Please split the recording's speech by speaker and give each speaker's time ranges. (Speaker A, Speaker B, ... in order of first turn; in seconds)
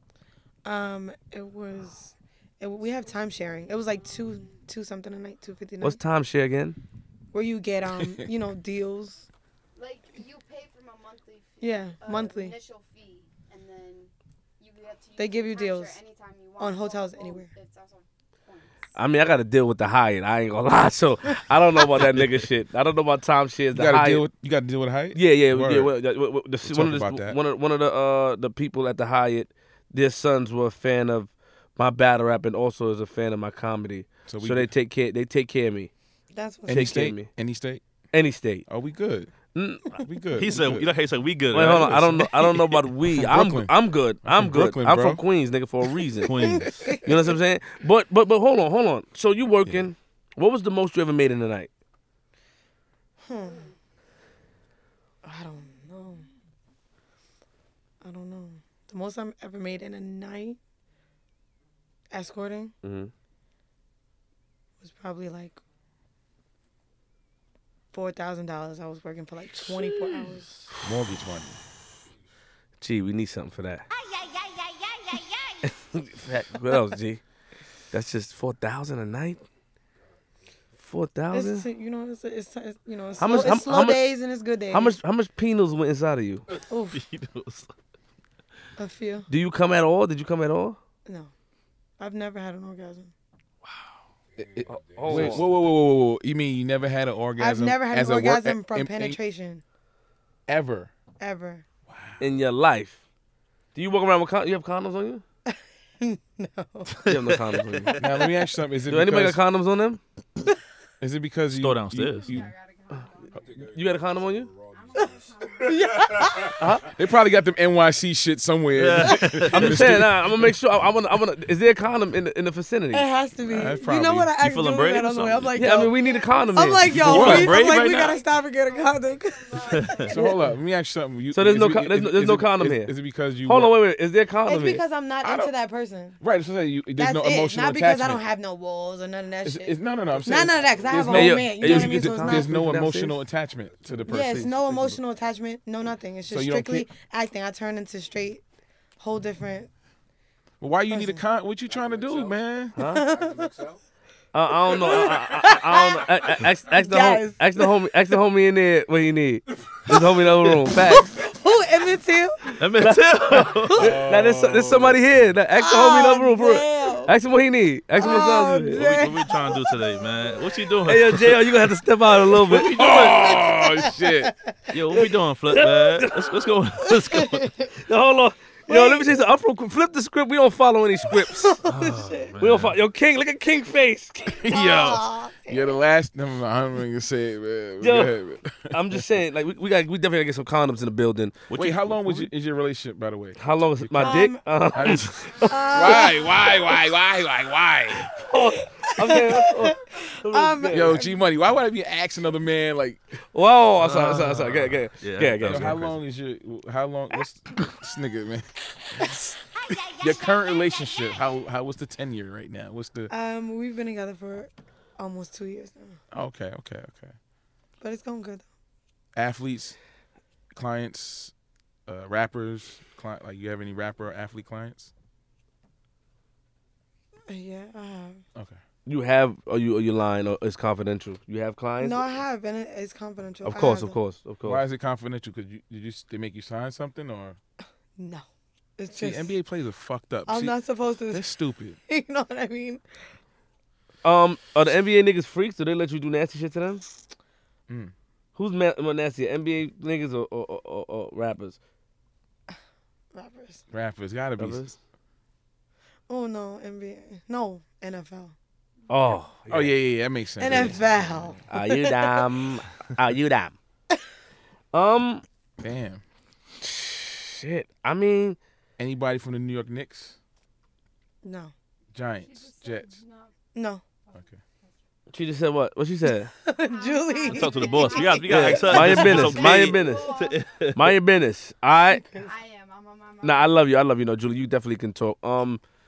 Speaker A: 0.7-6.0, 7.3-9.3, 11.6-12.6, 15.2-16.0, 16.6-17.5, 36.3-37.0, 46.4-47.2, 53.2-53.7, 55.2-56.3, 58.0-60.6, 62.1-62.7, 64.8-65.6, 67.9-70.5, 81.3-85.0, 86.7-87.0, 88.8-89.3, 91.1-91.3, 92.0-93.1, 97.4-99.6, 101.2-101.6, 105.5-107.0, 115.6-116.6, 122.9-126.0, 126.5-130.4, 134.5-136.2, 137.0-142.6, 144.1-148.4, 149.0-149.7, 150.9-151.2, 152.8-153.5, 154.7-157.7, 160.7-162.5, 165.6-167.1, 168.0-169.8, 173.4-174.3, 176.9-177.7, 178.7-179.2, 181.4-182.3, 184.5-185.7, 194.0-196.7, 198.8-201.2, 209.0-209.3, 213.1-216.0, 217.8-218.5, 227.3-228.2, 231.8-234.0, 238.0-238.2, 238.8-239.3, 240.3-241.2, 241.8-242.8, 253.1-253.6, 256.1-258.3, 260.4-262.3, 271.2-271.5, 273.5-273.8, 276.4-279.2, 281.9-282.3
Speaker B: 5.8-6.8, 18.9-24.3, 25.1-35.9, 36.7-37.3, 38.1-38.7, 39.5-40.0, 41.5-51.7, 62.8-63.1, 72.8-73.9, 75.6-77.2, 77.9-79.4, 80.8-81.7, 83.2-84.1, 84.7-86.4, 89.3-90.8, 94.7-95.5, 102.2-103.0, 103.8-105.2, 107.0-108.0, 108.9-110.0, 113.7-114.5, 116.6-116.9, 119.5-123.1, 125.6-127.1, 131.3-134.8, 141.1-143.2, 152.8-153.1, 154.3-161.2, 162.8-168.9, 170.9-173.1, 175.5-176.4, 177.9-181.6, 182.4-184.5, 187.8-188.2, 188.7-191.4, 193.4-196.0, 198.1-201.0, 203.3-205.8, 228.9-232.1, 233.4-234.6, 244.0-246.8, 248.4-251.6, 254.4-254.7, 258.9-259.8, 261.5-263.6, 264.7-265.2, 266.6-268.4, 275.1-276.3, 278.3-280.1, 280.8-282.0, 283.2-285.6
Speaker C: 8.0-8.3, 23.7-25.9, 26.6-27.4, 34.3-34.7, 36.7-37.8, 38.7-39.3, 40.0-40.9, 41.6-42.3, 43.1-45.2, 49.6-49.9, 70.8-71.6, 94.5-99.2, 100.5-100.9, 101.9-102.3, 108.0-109.4, 111.0-112.5, 116.9-120.3, 123.5-124.3, 127.0-127.6, 130.1-133.8, 135.2-135.5, 136.2-138.2, 139.4-145.0, 146.3-146.9, 150.6-152.8, 163.8-165.0, 172.5-174.3, 184.4-189.1, 191.5-198.1, 200.7-203.0, 205.4-213.1, 216.1-217.2, 219.2-219.8, 220.5-221.3, 221.9-224.9, 234.4-237.4, 238.9-240.6, 241.1-241.8, 253.7-254.8, 259.5-260.9, 265.6-266.0, 268.8-270.2, 271.9-273.0
Speaker D: 9.8-18.9, 53.5-53.7, 112.1-113.5, 114.7-116.2, 125.8-130.4, 195.6-195.9, 272.2-273.3, 276.6-280.5, 282.1-283.6
Speaker E: 40.4-42.7, 46.2-47.0, 69.6-70.4, 86.9-87.7, 93.7-93.9, 107.0-108.2, 111.5-112.4, 118.8-120.0, 124.4-125.8, 126.8-128.2, 129.7-130.1, 162.6-164.0, 168.7-171.7, 172.4-173.5, 174.7-177.5, 181.7-182.8, 191.5-192.3, 203.8-206.0, 277.2-280.9
Speaker F: 94.3-95.7, 113.3-116.9, 140.1-141.2, 143.5-144.5, 151.7-152.4, 153.0-153.8